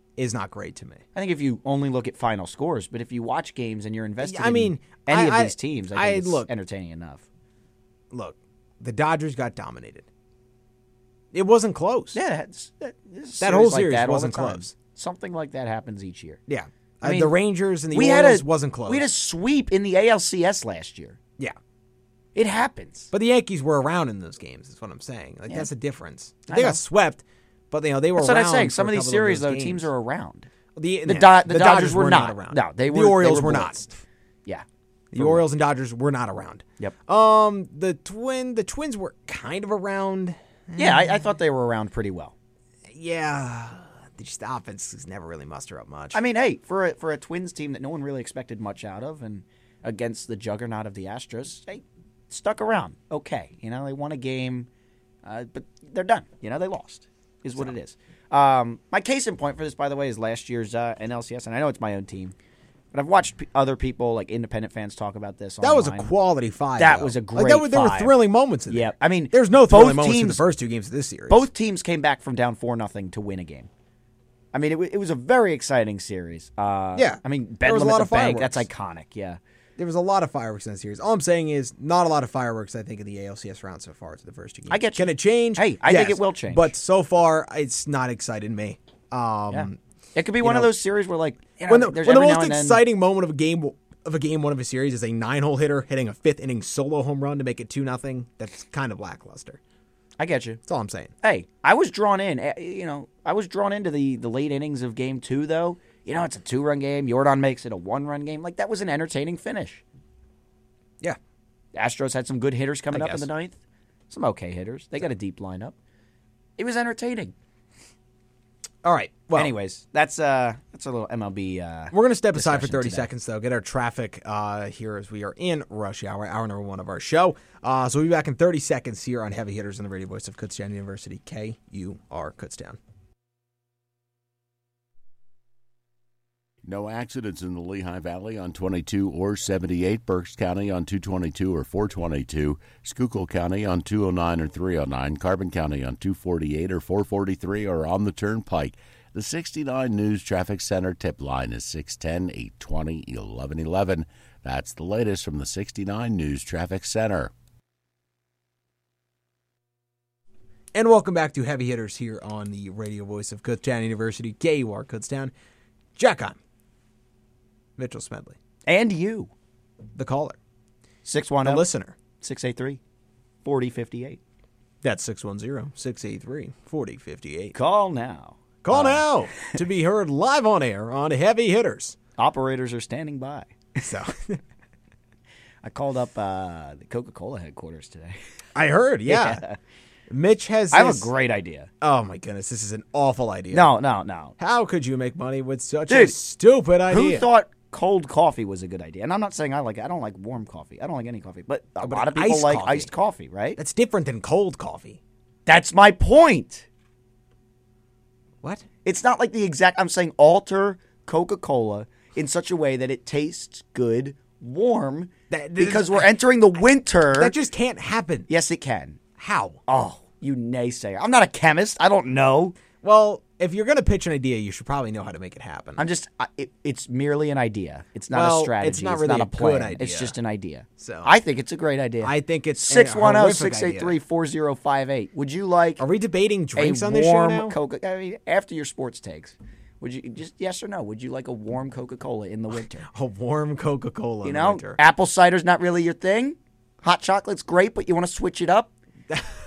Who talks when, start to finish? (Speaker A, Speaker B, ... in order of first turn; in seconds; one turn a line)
Speaker A: 0.2-1.0
Speaker B: 1.1-7.2
Speaker A: 4.2-6.5
Speaker A: 8.1-10.1
Speaker A: 11.3-12.2
Speaker B: 12.1-16.4
Speaker A: 13.4-14.7
Speaker A: 16.5-19.1
Speaker B: 17.0-17.3
Speaker B: 17.9-21.2
Speaker B: 22.3-23.1
Speaker A: 23.1-29.9
Speaker B: 26.5-26.8
Speaker B: 28.2-30.5
Speaker A: 30.8-33.9
Speaker B: 31.1-33.8
Speaker B: 34.5-35.4
Speaker A: 35.1-41.2
Speaker B: 40.8-42.3
Speaker A: 42.9-46.2
Speaker B: 46.1-54.7
Speaker B: 55.2-62.3
Speaker B: 62.9-66.1
Speaker A: 65.6-71.5
Speaker B: 66.8-68.1
Speaker B: 68.7-70.4
Speaker B: 71.3-73.7
Speaker B: 74.5-79.4
Speaker A: 76.9-78.7
Speaker A: 79.8-89.8
Speaker B: 84.7-86.7
Speaker B: 89.5-92.8
Speaker A: 90.4-90.7
Speaker A: 91.7-99.6
Speaker B: 100.2-100.6
Speaker A: 100.7-101.1
Speaker B: 101.2-109.8
Speaker B: 111.7-113.5
Speaker A: 112.9-113.3
Speaker B: 114.1-115.7
Speaker B: 116.6-117.3
Speaker A: 118.8-119.5
Speaker B: 119.3-123.1
Speaker A: 121.9-132.8
Speaker C: 136.6-157.3
Speaker A: 160.7-165.3
Speaker A: 165.9-166.4
Speaker A: 167.8-168.3
Speaker B: 168.7-169.3
Speaker A: 169.9-170.4
Speaker B: 171.0-171.7
Speaker A: 171.4-171.9
Speaker B: 172.2-172.8
Speaker B: 173.4-174.2
Speaker A: 174.8-177.5
Speaker B: 177.5-179.5
Speaker A: 178.6-182.0
Speaker B: 182.2-183.9
Speaker A: 183.8-184.4
Speaker B: 185.6-188.2
Speaker A: 188.5-189.4
Speaker B: 189.1-189.6
Speaker A: 190.1-191.1
Speaker B: 190.7-191.7
Speaker A: 191.8-193.7
Speaker B: 193.5-194.3
Speaker A: 194.4-197.2
Speaker B: 195.9-196.2
Speaker B: 196.9-203.6
Speaker A: 201.8-202.9
Speaker A: 203.6-205.0
Speaker B: 205.4-206.7
Speaker B: 208.8-217.3
Speaker A: 215.3-216.1
Speaker A: 217.1-218.3
Speaker B: 218.3-219.0
Speaker A: 219.2-219.6
Speaker B: 219.7-222.6
Speaker A: 222.8-225.9
Speaker B: 225.8-235.8
Speaker A: 228.1-230.1
Speaker A: 230.8-231.1
Speaker A: 232.0-233.9
Speaker A: 235.8-237.6
Speaker B: 236.6-242.9
Speaker A: 242.9-244.8
Speaker B: 244.2-248.7